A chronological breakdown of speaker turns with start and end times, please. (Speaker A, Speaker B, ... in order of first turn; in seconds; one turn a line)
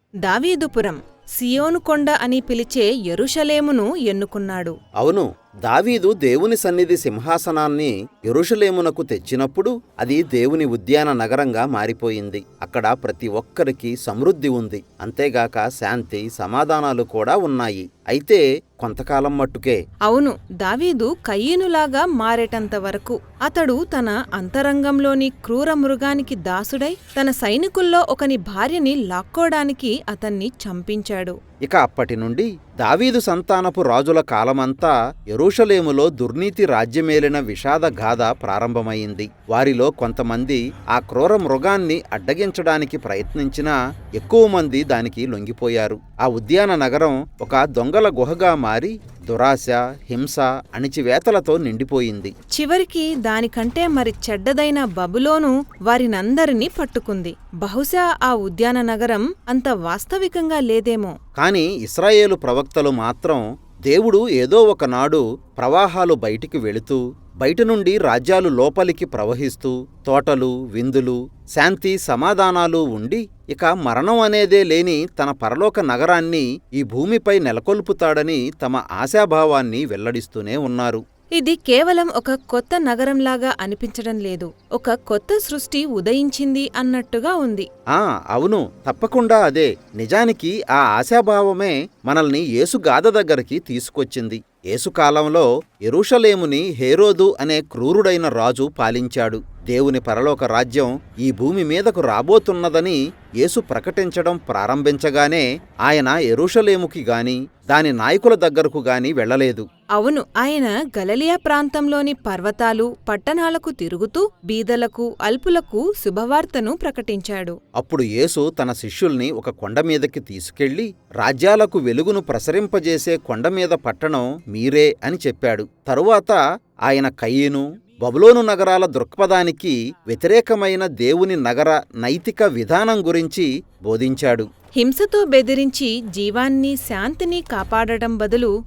Speaker A: 0.2-4.8
Speaker B: 5.0-19.8
Speaker A: 20.1-31.4
Speaker B: 31.6-52.3
Speaker A: 52.5-61.1
Speaker B: 61.4-81.0
Speaker A: 81.4-87.7
Speaker B: 87.9-109.7
Speaker A: 110.0-117.6
Speaker B: 117.8-134.5
Speaker A: 134.8-138.5